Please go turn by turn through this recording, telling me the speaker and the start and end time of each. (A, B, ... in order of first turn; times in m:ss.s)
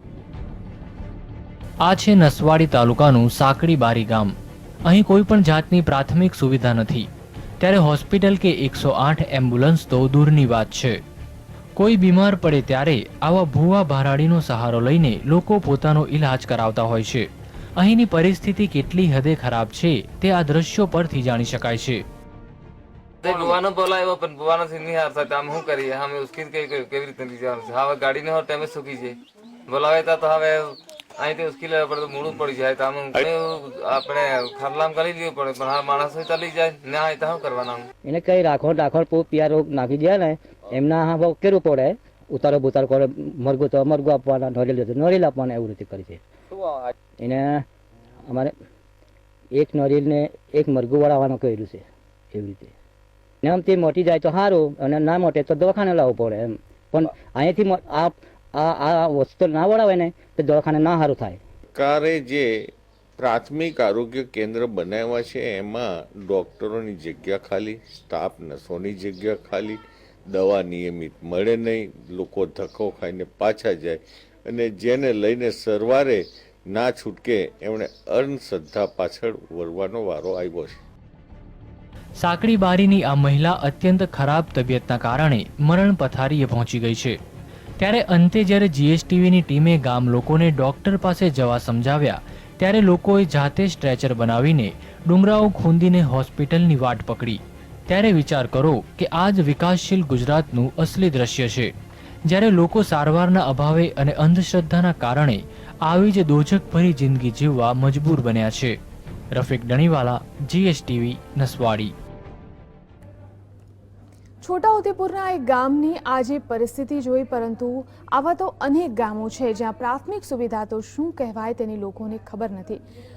0:01.8-0:04.3 A
0:04.8-0:07.1 A
0:07.6-0:11.0 A
0:11.8-0:22.0 A
0:23.2-0:37.9 B
0:38.1-0:46.2 C
0:47.2-0:47.6 C
0:49.6-0:52.7 C
0:53.4-1:01.4 C
1:01.7-1:20.8 D
1:22.2-1:27.2 A
1:27.8-1:41.7 A
1:42.3-1:48.8 A
1:49.3-1:51.9 A
1:54.4-2:02.8 E